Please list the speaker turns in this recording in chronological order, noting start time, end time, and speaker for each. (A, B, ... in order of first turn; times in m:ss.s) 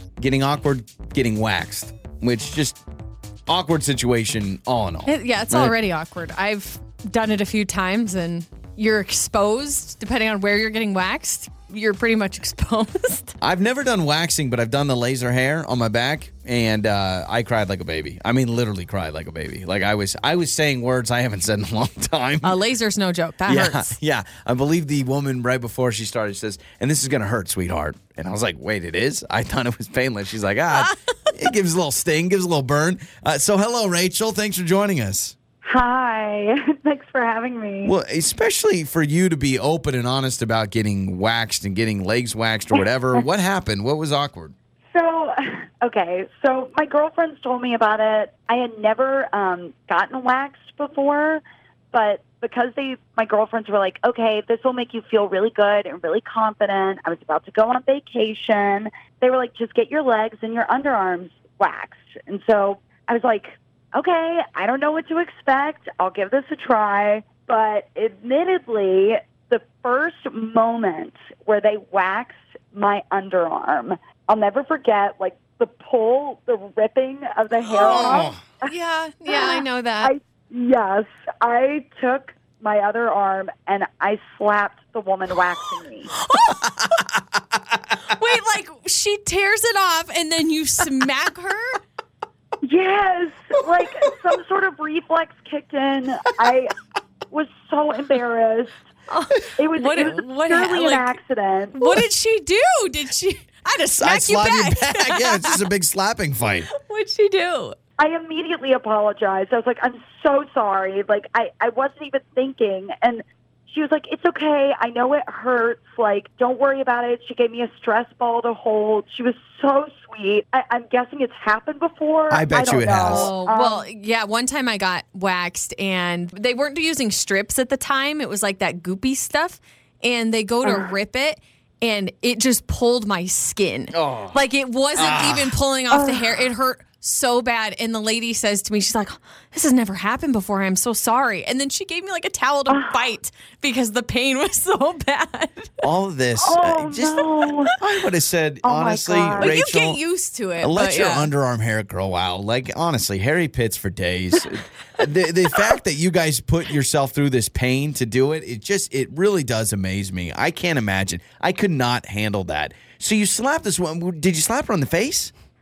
0:00.2-0:02.8 A
0:03.5-0:05.8 A
0:05.1-0:13.3 B
0:13.4-0:22.6 A
0:22.4-0:24.0 B
0:23.5-0:35.4 A
0:35.6-0:37.9 C
0:37.8-0:44.5 A
0:44.9-0:51.4 C
0:51.9-1:18.7 C
1:17.7-1:18.4 A
1:18.7-1:20.1 B
1:19.3-1:26.1 C
1:26.1-1:26.6 B
1:26.6-1:27.1 A
1:28.1-1:31.8 B
1:32.6-1:36.8 C
1:37.3-1:38.8 C
1:39.1-1:41.2 B
1:39.6-1:41.9 C
1:41.7-1:45.7 B
1:44.0-1:46.7 A
1:46.7-1:47.8 B
1:48.0-2:03.9 C
2:02.3-2:03.3 A
2:03.1-2:25.7 B
2:13.9-2:14.4 A
2:15.0-2:15.6 A
2:15.9-2:16.3 C
2:22.7-2:23.0 C
2:25.8-2:30.0 A
2:26.4-2:27.7 C
2:28.6-2:29.6 C
2:29.4-2:31.3 B
2:30.6-2:45.3 A